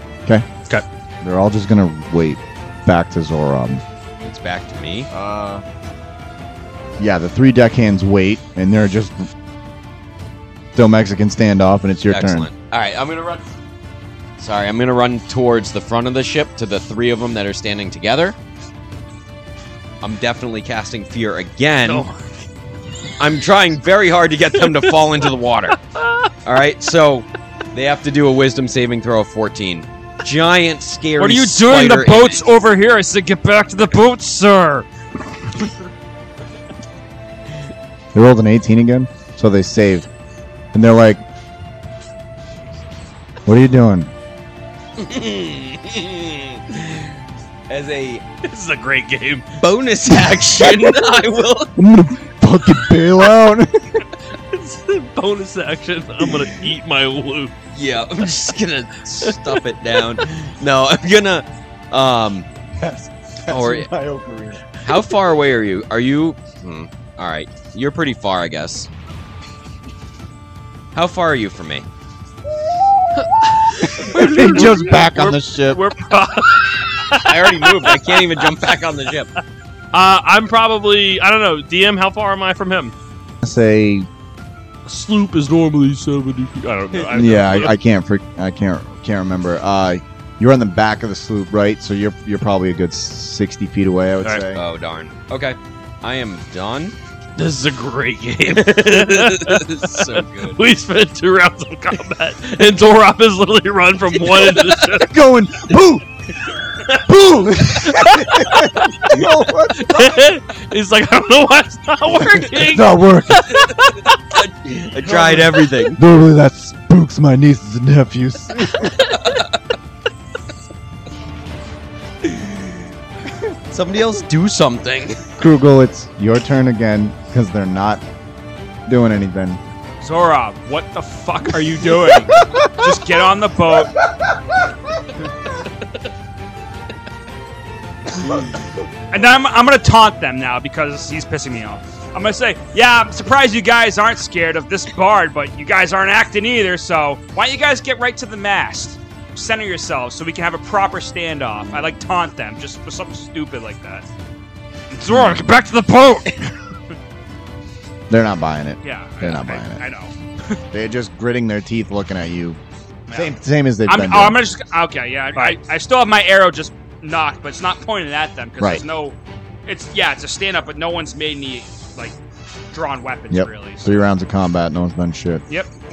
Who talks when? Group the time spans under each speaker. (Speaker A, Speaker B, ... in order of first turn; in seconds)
Speaker A: 1.2-3.8, 5.1-5.6, 7.0-9.3, 10.7-12.5, 38.1-40.1, 40.7-41.2, 43.4-44.1, 51.8-54.0, 62.8-64.9, 73.9-75.8, 83.4-84.1, 87.1-94.6, 105.0-106.0, 106.9-110.2, 112.5-113.7, 115.1-115.4, 115.9-119.0, 125.4-128.0, 128.9-129.6, 131.9-133.0, 155.1-155.4, 158.1-159.8, 160.7-162.6, 163.1-164.4, 168.6-168.8, 173.3-175.4
Speaker B: 4.2-5.1, 12.1-13.4, 14.4-18.3, 20.0-22.1, 23.2-25.8, 26.4-32.4, 45.0-47.2, 47.7-48.2, 49.5-51.7, 57.7-62.5, 63.5-63.9, 64.8-68.9, 70.9-71.8, 77.1-79.3, 94.5-96.9, 98.6-100.6, 104.3-104.6, 114.2-116.0, 119.2-119.5, 122.3-122.7, 123.7-125.2
Speaker C: 21.8-22.2, 24.7-24.9, 25.9-26.3, 48.4-49.5, 54.5-57.5, 59.2-60.0, 73.2-78.4, 79.9-82.9, 84.8-87.7, 97.4-105.1, 107.6-114.2, 115.2-115.5
Speaker D: 31.2-34.9, 130.0-134.0, 139.1-154.1, 154.9-156.5, 158.8-160.6, 163.1-172.2, 172.7-174.0